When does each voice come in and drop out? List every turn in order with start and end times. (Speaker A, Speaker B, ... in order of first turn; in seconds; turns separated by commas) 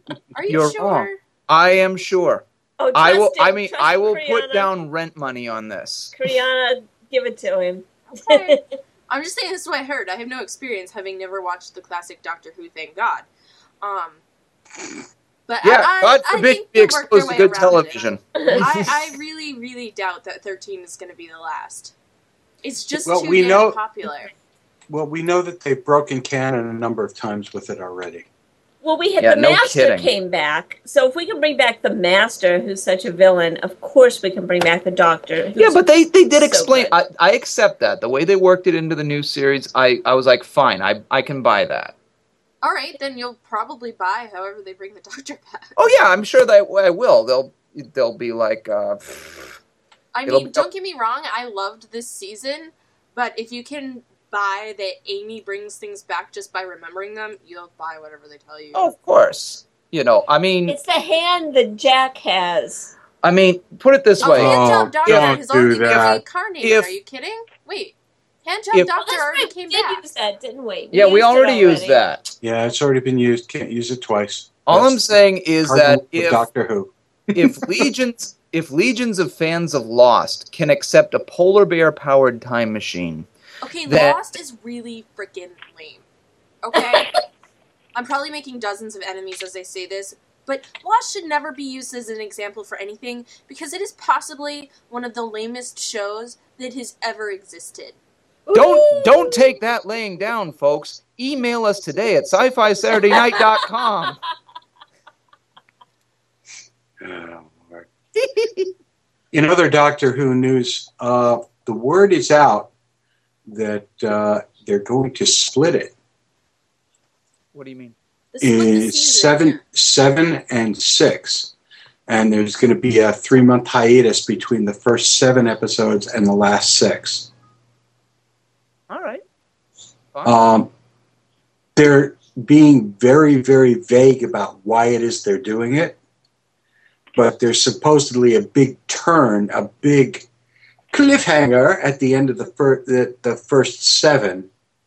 Speaker A: 0.3-1.2, Speaker B: 0.5-6.1, Speaker C: 2.8-4.7, Speaker C: 6.1-8.6, Speaker A: 8.1-13.3, Speaker A: 13.8-14.2, Speaker A: 15.5-21.9, Speaker B: 15.6-18.6, Speaker A: 22.6-24.3, Speaker D: 23.1-23.8, Speaker D: 24.9-28.3, Speaker C: 28.8-37.0, Speaker B: 29.2-30.1, Speaker B: 35.6-41.9, Speaker A: 42.6-45.8, Speaker B: 45.8-49.6, Speaker A: 50.1-58.8, Speaker B: 50.3-50.7, Speaker B: 58.7-60.8, Speaker C: 60.7-62.9, Speaker B: 63.2-65.3, Speaker A: 64.2-70.0, Speaker D: 64.3-66.2, Speaker B: 66.6-66.9, Speaker C: 69.0-72.0, Speaker B: 70.9-72.3, Speaker D: 72.4-77.9, Speaker B: 74.7-76.5, Speaker B: 77.3-83.3, Speaker A: 83.6-86.0, Speaker B: 83.9-84.2, Speaker A: 86.6-87.2, Speaker A: 88.0-98.0, Speaker C: 98.5-99.5, Speaker B: 98.5-104.2, Speaker C: 103.1-103.4, Speaker D: 107.0-107.9, Speaker B: 108.2-108.7, Speaker D: 109.3-112.7, Speaker D: 113.5-115.9, Speaker B: 117.5-118.0, Speaker A: 118.3-119.6, Speaker D: 118.4-121.5, Speaker D: 122.1-127.3, Speaker B: 128.9-129.2, Speaker B: 130.1-130.5, Speaker D: 130.2-130.7, Speaker D: 131.8-136.0, Speaker D: 137.2-140.3, Speaker D: 140.9-144.5